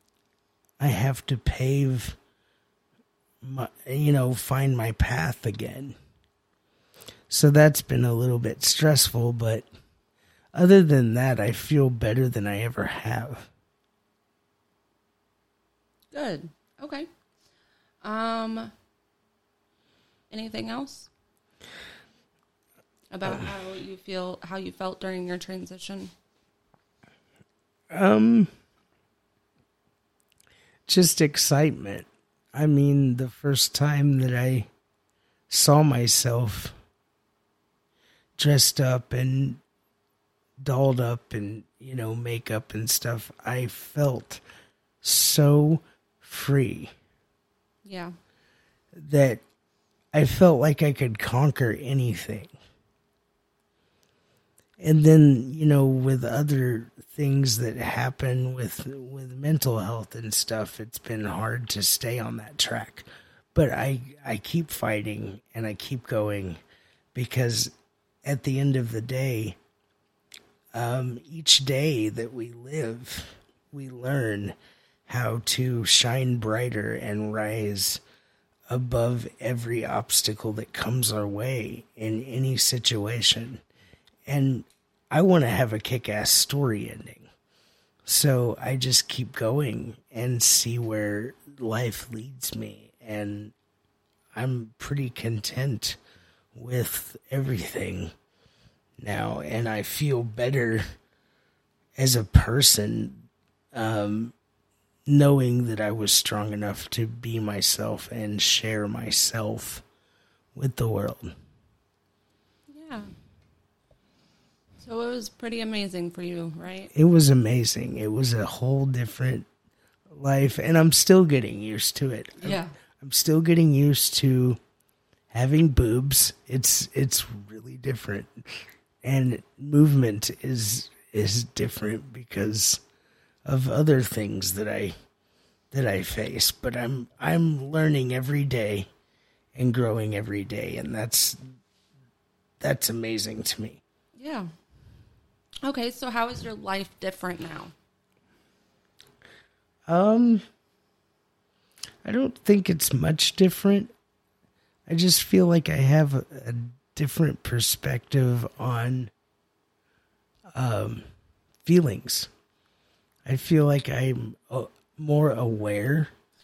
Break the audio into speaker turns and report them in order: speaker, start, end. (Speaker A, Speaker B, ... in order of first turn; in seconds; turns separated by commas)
Speaker A: 0.8-2.2, Speaker A: 3.4-6.0, Speaker A: 7.3-9.7, Speaker A: 10.5-13.5, Speaker B: 16.1-17.1, Speaker B: 18.0-18.7, Speaker B: 20.3-21.1, Speaker B: 23.1-26.1, Speaker A: 27.9-28.5, Speaker A: 30.9-34.7, Speaker A: 35.5-36.8, Speaker A: 38.4-39.6, Speaker A: 40.6-44.4, Speaker A: 45.0-46.9, Speaker B: 47.9-48.1, Speaker A: 48.9-49.4, Speaker A: 50.1-52.5, Speaker A: 54.8-66.6, Speaker A: 67.1-67.7, Speaker A: 68.2-69.6, Speaker A: 70.7-74.5, Speaker A: 75.1-78.0, Speaker A: 78.7-83.6, Speaker A: 84.3-87.3, Speaker A: 88.1-93.5, Speaker A: 94.3-96.0, Speaker A: 96.5-98.1, Speaker A: 99.0-100.8, Speaker A: 102.0-104.3, Speaker A: 105.1-109.8, Speaker A: 110.5-111.3, Speaker B: 112.7-113.1, Speaker B: 114.8-116.9, Speaker A: 116.9-119.5, Speaker A: 120.1-124.6, Speaker B: 122.4-122.7, Speaker A: 125.3-132.8, Speaker A: 133.4-134.9, Speaker A: 135.7-138.9, Speaker A: 139.6-141.4, Speaker A: 142.6-143.8, Speaker B: 144.2-144.5, Speaker B: 145.6-147.7, Speaker A: 149.9-150.4, Speaker A: 152.0-153.9, Speaker A: 154.9-159.1, Speaker A: 160.5-161.0, Speaker A: 161.7-162.3, Speaker A: 163.2-166.1